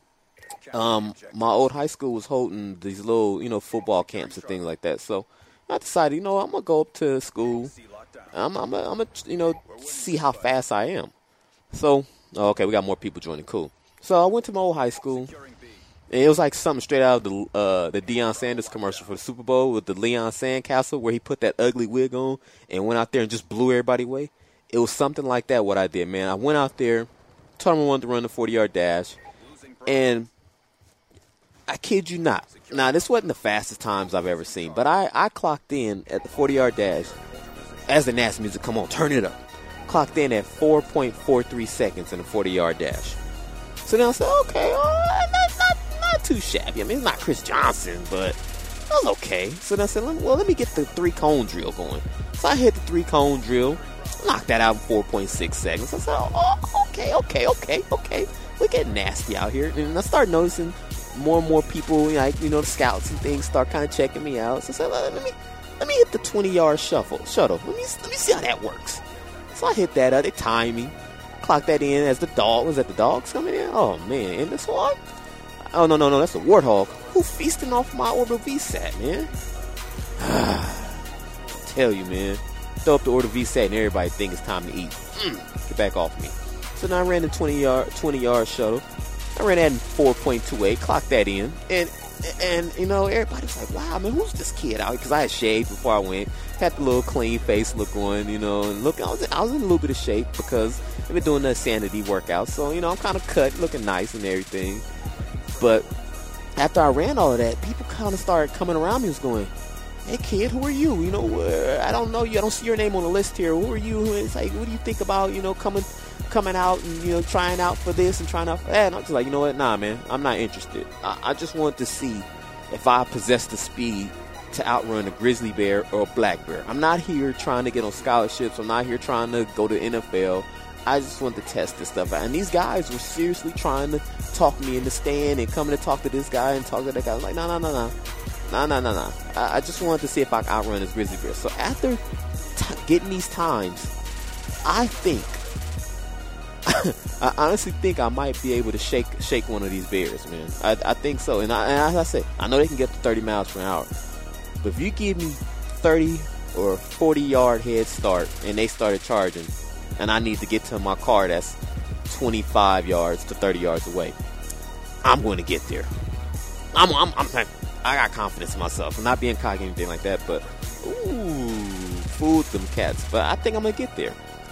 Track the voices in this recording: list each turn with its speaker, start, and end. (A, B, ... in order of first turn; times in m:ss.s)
0:00.7-0:07.7 A
0:08.3-0:11.1 A
0:11.7-0:15.4 A
0:16.1-0:29.2 A
0:29.8-0:30.3 A
0:31.7-0:37.2 A
0:37.9-0:43.2 A
0:43.8-1:15.0 A
1:15.7-1:19.3 A
1:20.2-1:21.1 A
1:21.6-1:44.8 A
1:45.6-1:45.9 A
1:46.6-1:49.5 A
1:50.0-2:22.0 A
2:22.5-2:23.9 A
2:24.6-2:25.4 A
2:26.6-2:33.9 A
2:34.6-2:44.2 A
2:45.0-2:45.9 A
2:46.7-2:54.2 A